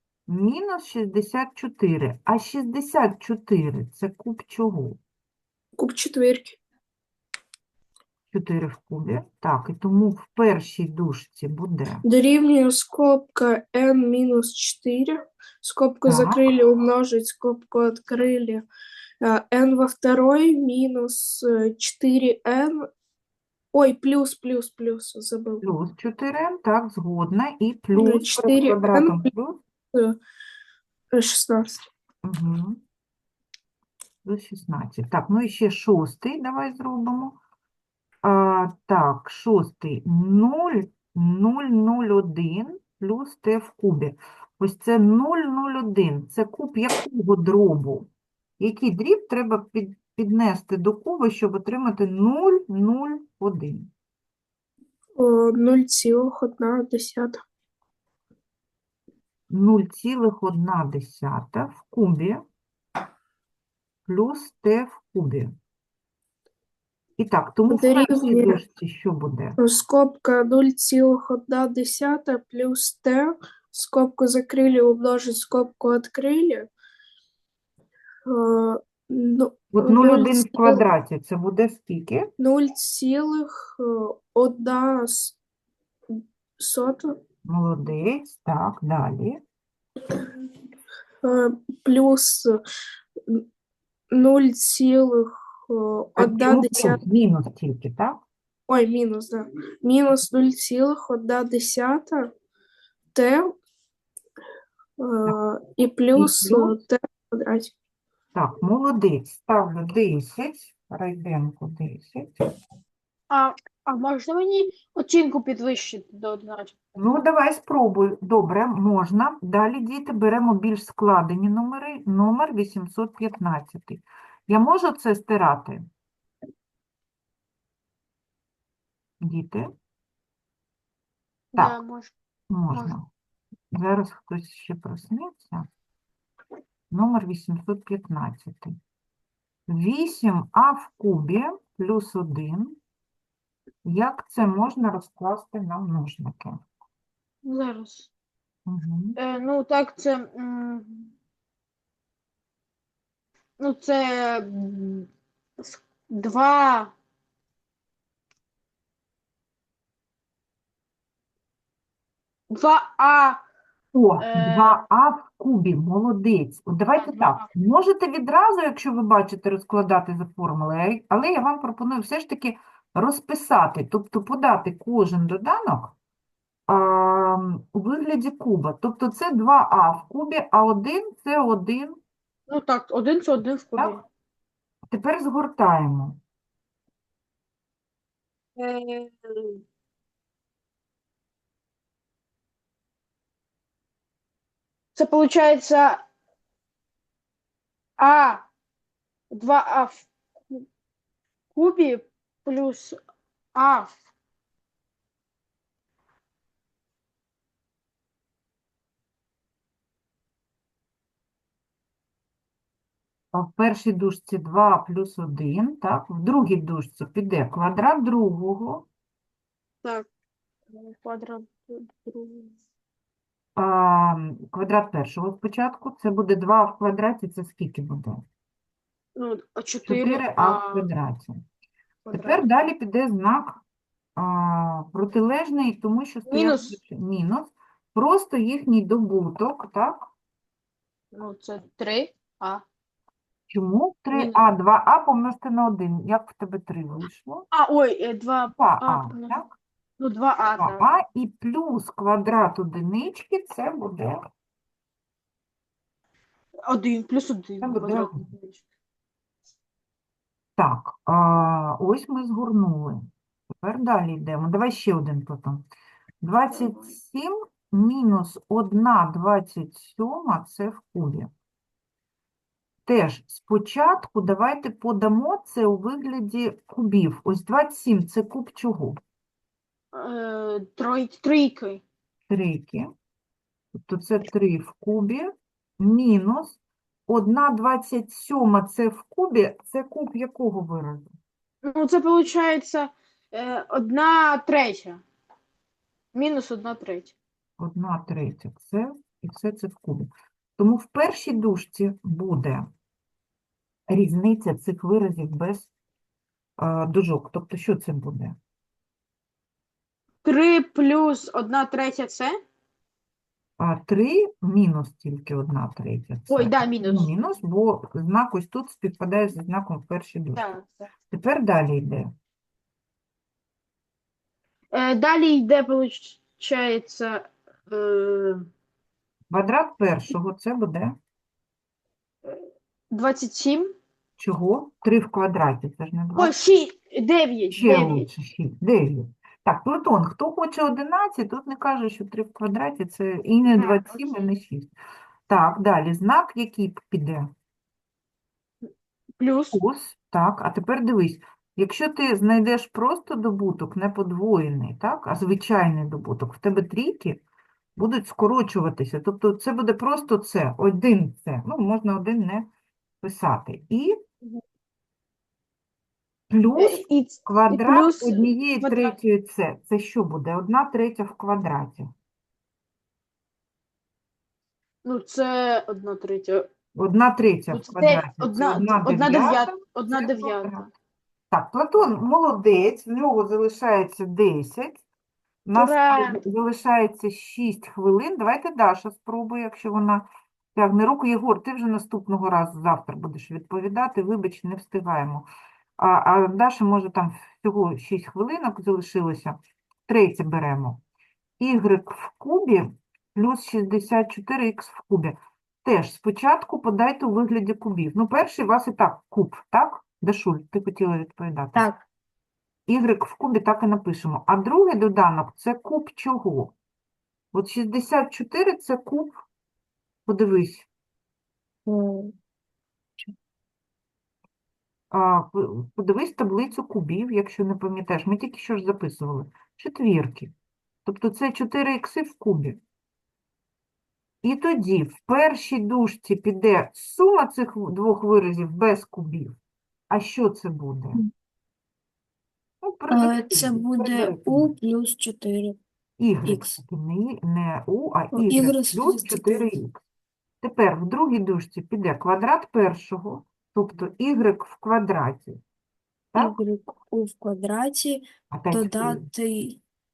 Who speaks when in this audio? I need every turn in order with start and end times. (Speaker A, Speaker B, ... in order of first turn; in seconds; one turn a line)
Speaker A: 0.3-5.0
Speaker B: 5.8-6.6
Speaker A: 8.3-12.1
Speaker B: 12.1-18.7
Speaker A: 16.1-16.5
Speaker B: 19.2-22.9
Speaker B: 23.7-25.6
Speaker A: 25.6-29.6
Speaker B: 28.0-29.3
Speaker B: 29.9-30.2
Speaker B: 31.1-31.9
Speaker A: 32.2-32.8
Speaker A: 34.2-37.4
Speaker A: 38.2-48.1
Speaker A: 48.6-53.9
Speaker B: 55.2-57.4
Speaker A: 59.5-62.4
Speaker A: 64.1-65.5
Speaker A: 67.2-69.6
Speaker B: 67.7-68.6
Speaker B: 69.6-76.7
Speaker B: 78.3-80.8
Speaker A: 79.7-82.3
Speaker B: 82.4-85.4
Speaker B: 86.1-87.2
Speaker A: 87.5-89.4
Speaker B: 91.2-92.6
Speaker B: 94.1-97.0
Speaker A: 96.2-98.2
Speaker B: 98.7-102.3
Speaker B: 103.1-103.6
Speaker B: 105.0-107.7
Speaker A: 106.1-106.8
Speaker A: 108.3-112.4
Speaker C: 113.3-116.8
Speaker A: 117.0-125.8
Speaker A: 129.2-129.7
Speaker C: 131.5-132.1
Speaker A: 132.5-133.1
Speaker A: 133.7-135.7
Speaker A: 136.9-138.8
Speaker A: 139.7-142.8
Speaker A: 143.8-146.6
Speaker C: 147.4-148.1
Speaker A: 148.7-149.2
Speaker C: 149.2-151.1
Speaker C: 153.6-156.9
Speaker C: 162.5-163.4
Speaker A: 163.9-175.9
Speaker C: 164.2-164.8
Speaker C: 166.9-167.5
Speaker A: 176.7-182.0
Speaker C: 182.5-184.0
Speaker A: 184.9-186.2
Speaker C: 188.6-189.6
Speaker C: 194.9-196.0
Speaker C: 198.0-198.5
Speaker C: 199.3-200.6
Speaker C: 201.5-203.0
Speaker C: 203.6-203.9
Speaker A: 213.3-218.9
Speaker C: 220.7-222.6
Speaker A: 223.6-228.2
Speaker C: 229.2-230.9
Speaker A: 229.9-231.4
Speaker C: 232.1-232.4
Speaker A: 232.1-233.6
Speaker A: 234.2-240.1
Speaker C: 236.3-236.8
Speaker C: 241.1-242.6
Speaker A: 243.5-247.5
Speaker C: 244.1-244.4
Speaker C: 247.5-249.4
Speaker A: 248.6-249.5
Speaker C: 250.0-250.9
Speaker A: 250.6-254.2
Speaker C: 256.7-258.6
Speaker A: 257.6-258.2
Speaker A: 260.6-263.1
Speaker A: 263.6-265.7
Speaker A: 266.2-271.3
Speaker A: 272.9-279.0
Speaker C: 279.9-281.8
Speaker A: 282.3-282.9
Speaker A: 283.8-291.1
Speaker C: 291.6-295.0
Speaker C: 296.1-297.1
Speaker A: 297.6-302.7
Speaker A: 303.9-305.7
Speaker A: 306.6-308.4
Speaker C: 310.2-312.4
Speaker A: 313.6-320.4
Speaker C: 316.3-317.1
Speaker C: 320.4-320.9
Speaker A: 321.1-322.1
Speaker C: 324.7-328.5
Speaker A: 329.3-331.0
Speaker C: 332.2-333.7
Speaker A: 334.2-336.4
Speaker C: 336.2-338.1
Speaker A: 337.5-344.7
Speaker C: 343.5-344.3
Speaker A: 345.3-347.3
Speaker C: 349.2-349.6
Speaker A: 349.5-357.2
Speaker A: 357.8-362.5
Speaker A: 363.0-364.0
Speaker A: 366.3-371.9
Speaker C: 366.6-368.9
Speaker C: 374.8-376.5
Speaker A: 376.8-380.7
Speaker C: 377.5-380.7
Speaker A: 381.3-384.8
Speaker A: 385.5-395.3
Speaker C: 385.6-386.2
Speaker A: 395.8-400.8
Speaker A: 401.4-411.7
Speaker D: 411.6-411.8
Speaker A: 412.7-416.5
Speaker A: 417.3-419.1
Speaker A: 420.1-420.7
Speaker D: 421.7-422.1
Speaker A: 424.9-430.3
Speaker A: 430.9-432.6
Speaker A: 434.2-439.4
Speaker A: 439.9-441.0
Speaker A: 442.6-444.5
Speaker D: 442.9-445.6
Speaker A: 446.0-449.8
Speaker D: 446.3-446.6
Speaker D: 448.1-449.5
Speaker A: 450.4-455.4
Speaker A: 456.1-456.4
Speaker D: 456.2-459.6
Speaker A: 458.3-459.1